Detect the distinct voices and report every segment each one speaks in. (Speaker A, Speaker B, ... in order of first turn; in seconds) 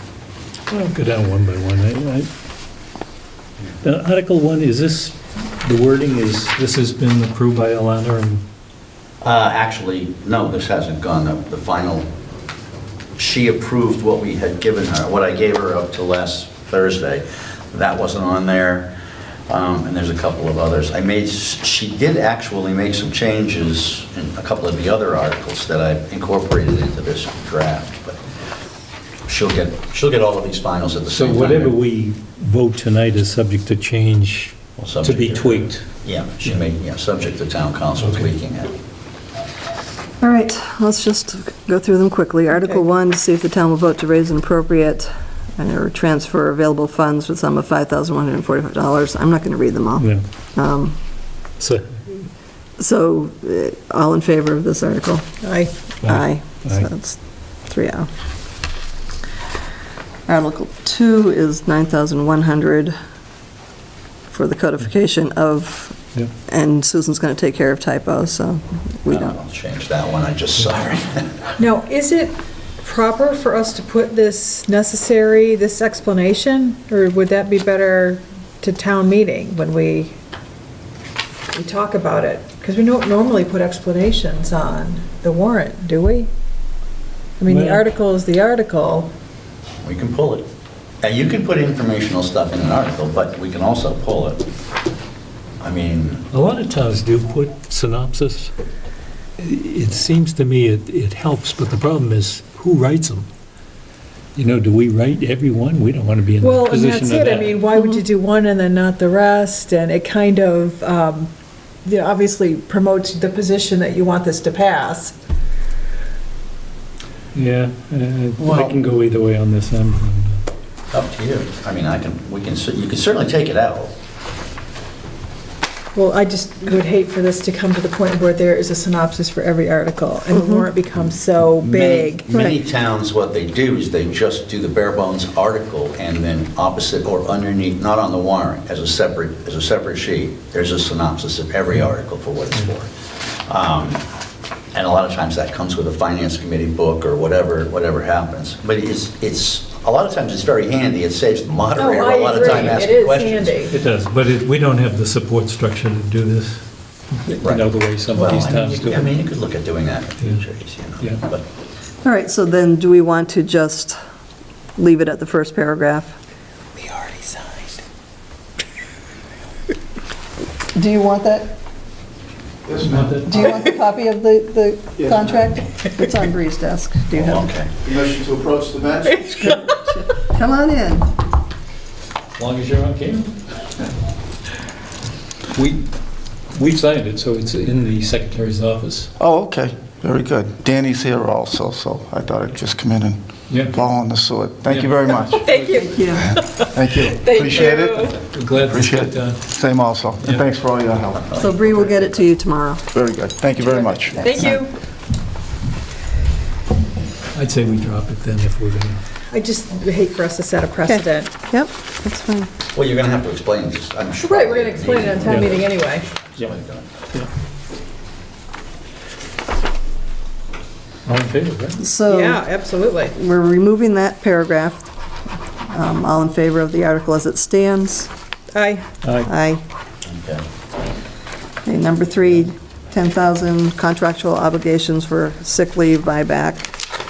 Speaker A: 0.7-2.3, 3.8-8.4, 31.1-35.8, 38.0-38.3, 51.6-52.2, 56.0-56.9, 87.5-87.8, 96.3-98.5, 99.4-103.3, 104.4-107.6, 117.3-120.4, 153.7-156.6, 157.2-159.2, 172.8-173.4, 182.4-183.4, 185.5-185.8, 186.5-189.1, 193.5-193.8, 194.7-196.2, 198.1-199.5, 207.3-209.0, 215.2-215.5, 221.1-221.8, 229.0-229.3
Speaker B: 9.2-12.1, 13.2-18.9, 19.5-28.2, 29.2-31.8, 34.8-38.7, 69.1-71.5, 89.8-90.5, 91.0-94.4, 95.6-96.3, 118.4-118.7, 120.9-123.9, 131.6-144.0, 144.7-153.6, 157.4-161.4, 177.2-177.7, 201.1-202.2, 212.7-216.9, 230.1-230.4
Speaker C: 40.2-51.0, 52.8-55.2, 56.0-58.1, 60.3-62.9, 64.3-69.3, 130.3-130.7, 162.0-164.0, 164.8-166.2, 170.8-171.6, 173.2-177.5, 179.3-181.1, 195.8-196.3, 201.3-202.9, 204.2-204.5, 210.9-212.5, 221.8-222.5, 223.1-224.8, 225.7-228.1, 229.2-229.6, 231.7-236.7
Speaker D: 55.4-55.7, 71.6-80.2, 81.5-86.3, 87.4-89.1, 106.4-111.3, 111.8-115.2, 125.9-132.3, 151.8-153.7, 166.8-167.7, 179.1-179.8, 195.4-198.2, 204.2-204.7, 209.3-211.3, 214.2-216.1, 222.1-223.1, 228.5-228.8
Speaker E: 172.7-173.4, 175.0-175.3, 177.8-179.5, 189.2-195.5, 196.7-201.3, 202.9-204.6